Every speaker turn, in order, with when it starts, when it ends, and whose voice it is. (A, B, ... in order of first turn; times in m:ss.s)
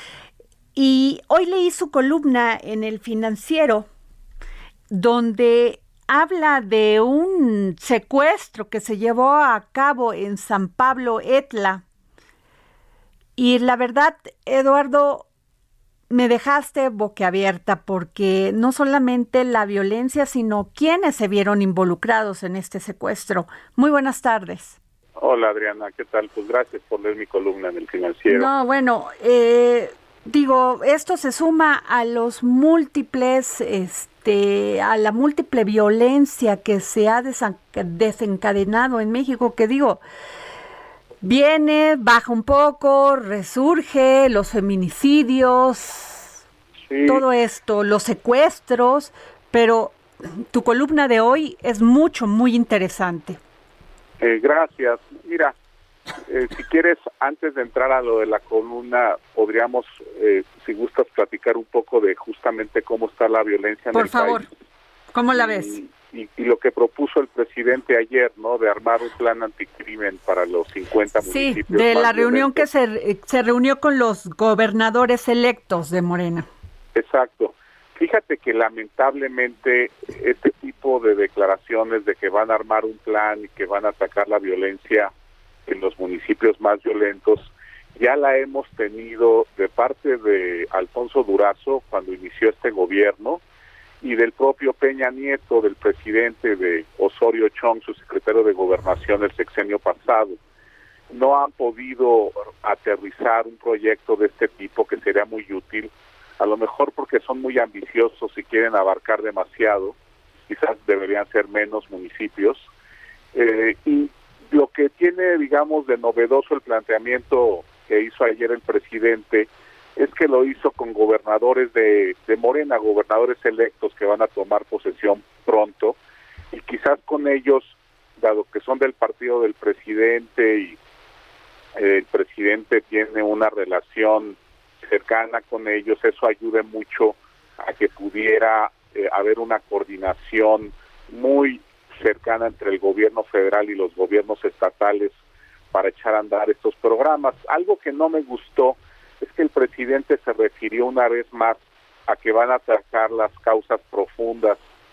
0:00.7-0:03.9 A
0:04.9-0:11.8 A
0:13.4-0:15.2 A
0:16.1-0:24.8 A
0:25.2-0:28.5 B
0:28.3-0:40.0 A
0:41.2-0:46.4 A
0:46.9-0:47.2 B
0:47.0-0:53.4 A
0:54.2-0:55.5 B
0:56.3-1:04.5 B
1:03.9-1:04.5 A
1:05.1-1:05.8 A
1:05.3-1:12.6 B
1:11.2-1:16.5 A
1:16.9-1:25.1 B
1:25.6-1:33.4 B
1:34.0-1:40.4 B
1:41.1-1:49.9 B
1:50.5-1:52.7 B
1:53.3-2:06.0 B
2:06.5-2:10.8 B
2:11.8-2:25.2 B
2:25.7-2:34.6 B